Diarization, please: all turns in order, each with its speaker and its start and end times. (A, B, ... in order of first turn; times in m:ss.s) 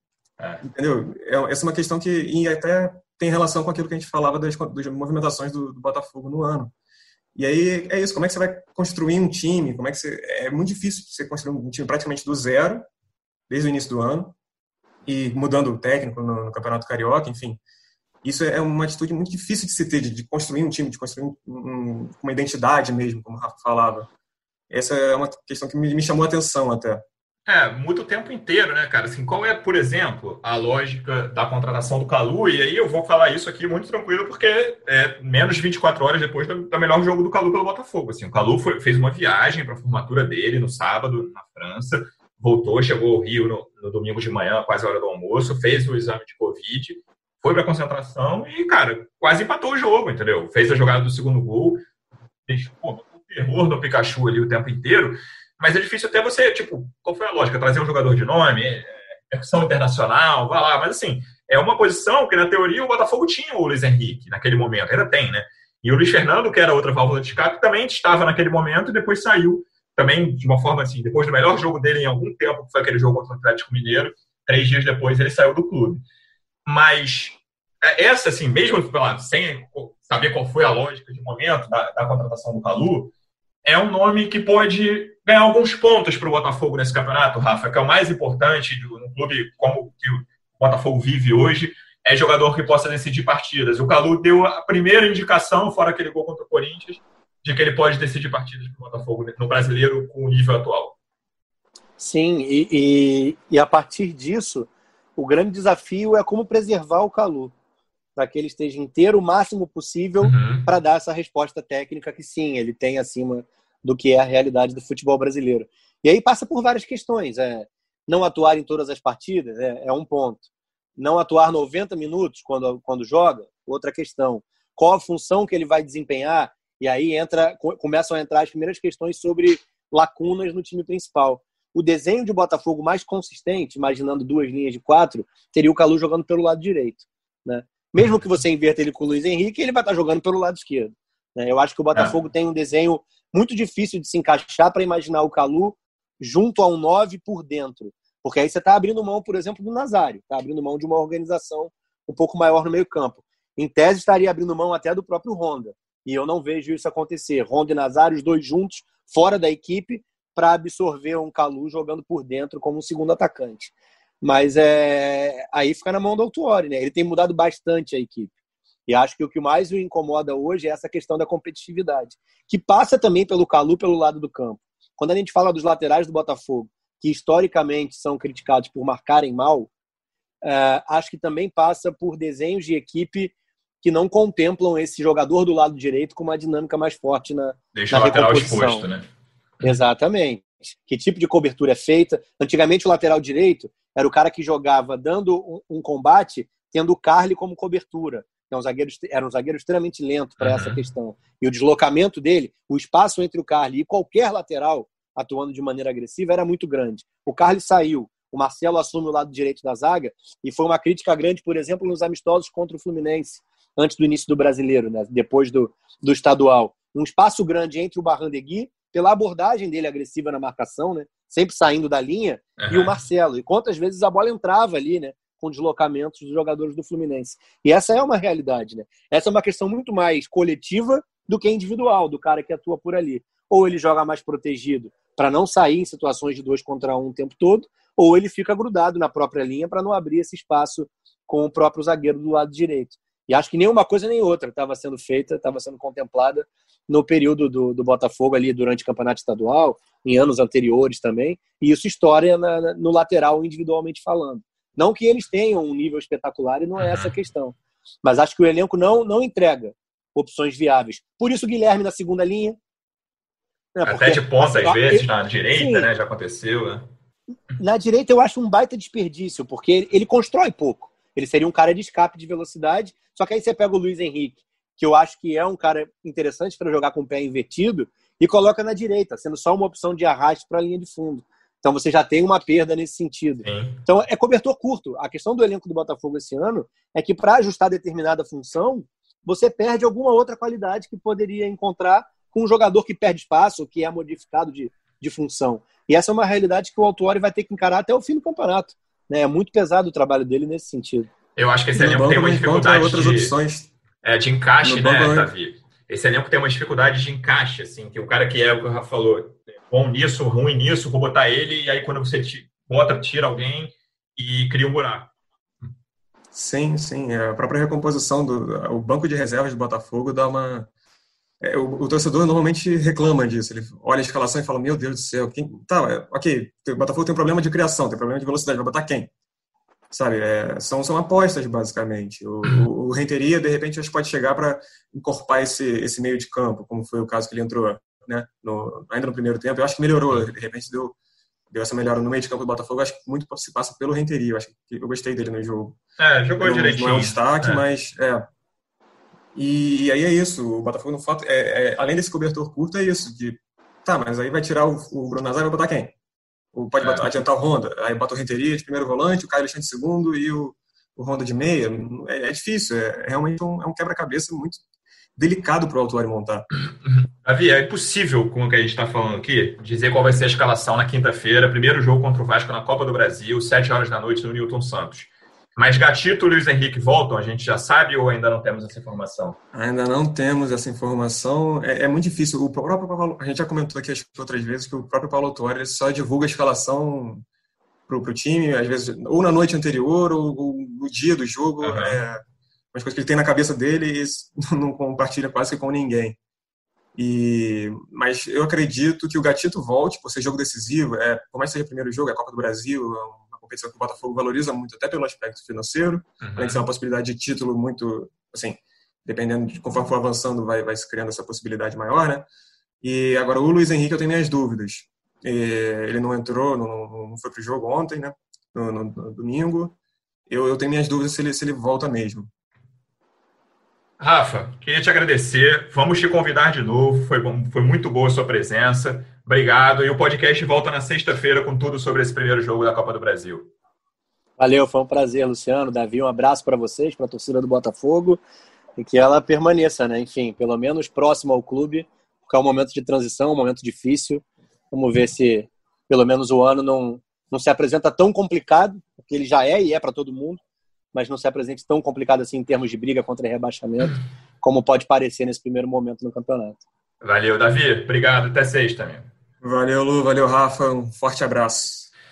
0:00.4-0:00.6 A
0:00.6-0:06.7 B
0:07.3-0:12.9 B
0:13.5-0:14.3 B
0:15.0-0:17.6 B
0:18.2-0:24.1 B
0:24.7-0:27.0 B
0:27.5-0:51.8 A
0:52.5-1:16.0 A
1:16.6-1:23.1 A
1:23.6-1:40.9 A
1:42.0-1:47.5 C
1:48.2-2:00.4 C
1:50.2-1:50.7 A
2:01.0-2:48.3 C
2:48.9-2:59.7 C
3:00.4-3:08.9 C
3:07.7-3:09.1 A
3:09.6-4:22.6 C
3:20.4-3:20.8 A
3:42.6-3:43.0 A
4:16.8-4:17.1 A
4:23.7-4:25.9 C
4:23.8-4:26.9 A
4:27.6-5:01.1 C
4:43.4-4:43.8 A
5:01.4-5:03.3 A
5:01.7-5:03.7 B
5:04.0-5:15.1 A
5:04.6-5:05.3 B
5:16.3-5:20.7 B
5:21.4-5:29.1 B
5:29.9-5:40.9 B
5:41.5-5:45.8 B
5:46.0-5:47.6 A
5:46.4-5:48.3 B
5:49.3-5:55.9 B
5:56.5-6:04.6 B
5:56.8-5:57.1 A
6:05.2-6:06.5 B
6:06.8-6:19.4 A
6:19.5-6:27.2 B
6:27.9-6:32.2 B
6:31.6-6:32.0 A
6:32.7-6:36.2 B
6:36.9-6:52.3 B
6:46.2-6:46.6 A
6:52.8-6:59.7 B
7:00.3-7:02.3 B
7:04.0-7:13.5 A
7:14.4-7:18.2 C
7:18.8-7:30.4 C
7:30.9-7:36.6 C
7:37.0-7:39.1 A
7:39.4-7:41.9 B